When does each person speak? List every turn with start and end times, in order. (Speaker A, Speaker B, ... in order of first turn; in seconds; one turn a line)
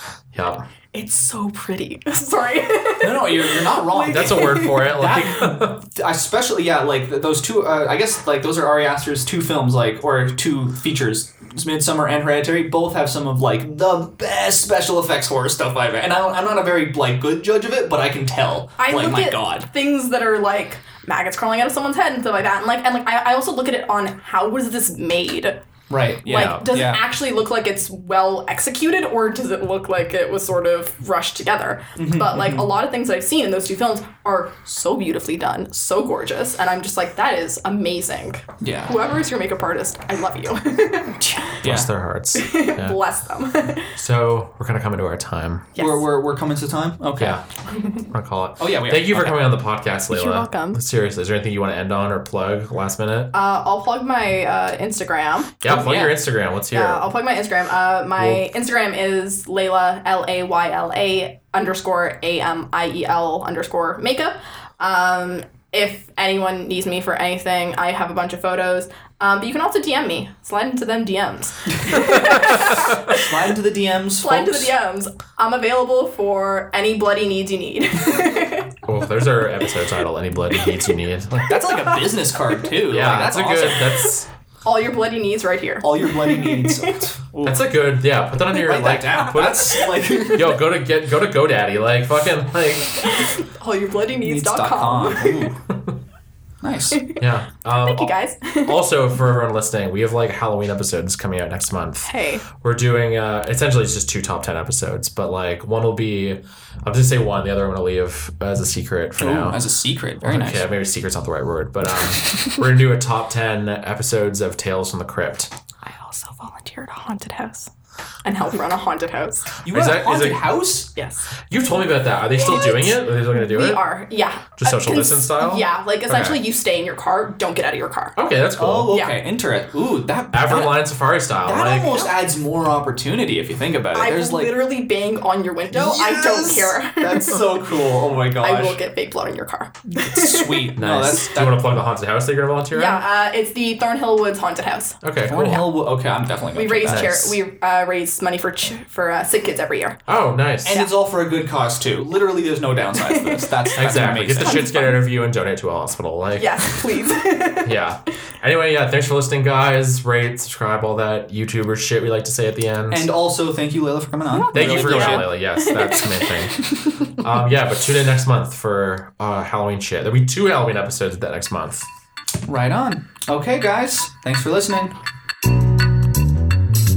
Speaker A: 0.3-0.7
Speaker B: 0.9-4.9
Speaker C: 3.0-19.7
Speaker A: 4.0-5.8
Speaker B: 18.8-25.6
Speaker C: 25.9-27.0
Speaker B: 26.3-41.6
Speaker A: 26.3-26.7
Speaker C: 32.0-32.7
Speaker C: 38.6-39.0
Speaker C: 41.6-41.9
Speaker A: 41.6-43.0
Speaker B: 42.4-44.0
Speaker A: 44.0-45.7
Speaker B: 45.8-46.1
Speaker C: 45.8-47.4
Speaker A: 47.2-47.5
Speaker A: 48.1-53.3
Speaker C: 48.6-49.6
Speaker B: 50.1-50.8
Speaker B: 53.3-56.2
Speaker A: 55.6-57.1
Speaker B: 56.7-73.3
Speaker C: 72.4-74.8
Speaker B: 74.2-78.8
Speaker A: 78.8-81.6
Speaker C: 81.4-83.8
Speaker B: 81.6-82.7
Speaker A: 82.8-84.3
Speaker B: 83.7-87.0
Speaker C: 85.8-87.7
Speaker A: 87.4-93.2
Speaker C: 88.5-90.6
Speaker B: 89.6-90.3
Speaker B: 93.0-95.5
Speaker C: 94.2-95.6
Speaker C: 96.6-97.1
Speaker B: 96.9-97.2
Speaker A: 97.2-109.6
Speaker B: 97.8-98.8
Speaker B: 102.0-102.5
Speaker C: 109.2-110.7
Speaker A: 110.2-115.5
Speaker B: 115.8-117.7
Speaker B: 118.2-119.5
Speaker C: 119.6-120.9
Speaker A: 119.7-120.6
Speaker B: 121.0-121.3
Speaker A: 121.5-123.8
Speaker B: 122.3-128.2
Speaker A: 124.6-126.4
Speaker A: 128.2-129.0
Speaker C: 128.6-134.7
Speaker B: 128.9-129.2
Speaker A: 130.3-132.1
Speaker B: 133.9-137.6
Speaker C: 135.7-138.8
Speaker B: 138.4-140.8
Speaker C: 139.9-141.8
Speaker A: 140.8-143.0
Speaker B: 142.7-145.0
Speaker A: 145.0-145.8
Speaker C: 145.3-147.3
Speaker B: 146.5-150.0
Speaker A: 146.9-147.3
Speaker A: 150.1-150.8
Speaker C: 150.6-154.8
Speaker B: 153.0-155.0
Speaker A: 153.8-156.8
Speaker B: 156.4-157.8
Speaker A: 157.6-163.1
Speaker C: 162.9-165.3
Speaker B: 164.3-167.2
Speaker A: 164.5-171.9
Speaker C: 172.4-174.9